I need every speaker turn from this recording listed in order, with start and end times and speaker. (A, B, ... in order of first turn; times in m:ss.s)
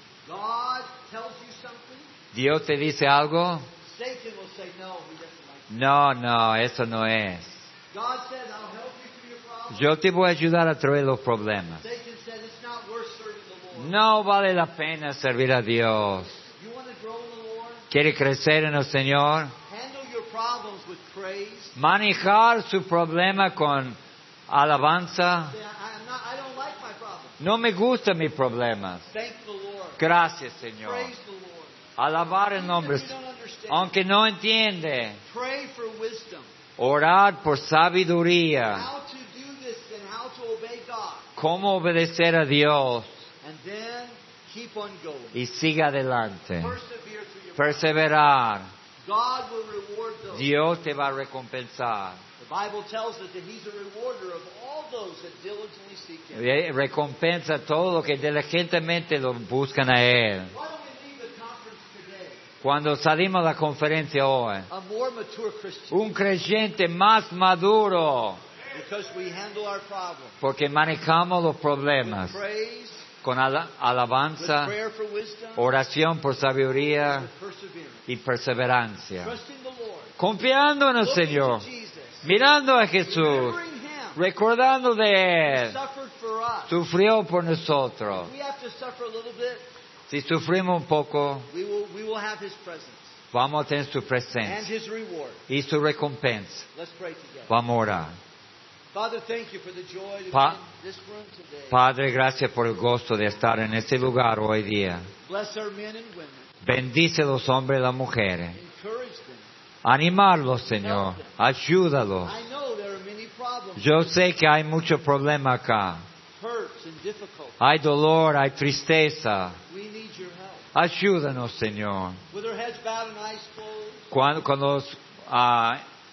0:00.2-0:02.1 A
0:02.3-0:03.6 B
0:03.8-0:05.7 A
0:05.7-0:07.6 B
0:07.9-0:09.9 A
0:09.7-0:11.8 B
0:11.8-0:13.9 A
0:13.7-0:16.4 B
0:16.6-0:17.8 A
0:17.9-0:19.5 B
0:19.6-0:21.8 A
0:21.8-0:24.0 B
0:24.5-0:25.5 B
0:25.5-0:27.4 A
0:27.4-0:29.0 B
0:29.1-0:30.0 A
0:30.0-0:31.1 B
0:30.8-0:31.8 A
0:32.0-0:33.1 B
0:32.5-0:33.9 A
0:33.7-0:35.2 B
0:35.3-0:36.5 A
0:36.8-0:38.9 B
0:38.7-0:41.3 A
0:41.4-0:43.1 B
0:43.4-0:45.4 A
0:45.3-0:46.7 B
0:46.6-0:48.0 A
0:47.6-0:48.7 B
0:49.0-0:50.5 A
0:50.3-0:52.2 B
0:52.4-0:56.5 A
0:56.3-1:00.5 B
1:00.5-1:02.4 A
1:02.6-1:04.7 B
1:04.7-1:06.0 A
1:05.9-1:08.4 B
1:08.7-1:10.4 A
1:10.4-1:12.4 B
1:12.0-1:13.1 A
1:13.2-1:14.7 B
1:14.4-1:15.7 A
1:15.6-1:17.3 B
1:17.0-1:18.0 A
1:18.1-1:19.3 B
1:19.2-1:20.1 A
1:20.2-1:21.6 B
1:21.0-1:22.3 A
1:22.2-1:23.6 B
1:23.0-1:24.2 A
1:24.2-1:25.8 B
1:25.4-1:26.7 A
1:26.7-1:28.3 B
1:28.2-1:29.6 A
1:30.1-1:31.5 B
1:31.5-1:33.1 A
1:33.3-1:34.7 B
1:34.4-1:35.4 A
1:35.5-1:36.7 B
1:36.7-1:37.5 A
1:37.5-1:38.1 B
1:38.9-1:41.8 A
1:40.3-1:40.6 B
1:41.7-1:45.0 B
1:45.3-1:46.5 A
1:46.6-1:48.6 B
1:48.5-1:49.4 A
1:49.8-1:52.4 B
1:50.8-1:51.3 A
1:52.2-1:54.2 A
1:53.8-1:56.0 B
1:56.4-1:57.6 A
1:57.6-1:59.6 B
1:59.7-2:00.6 A
2:00.7-2:02.2 B
2:02.3-2:04.0 A
2:04.1-2:05.8 B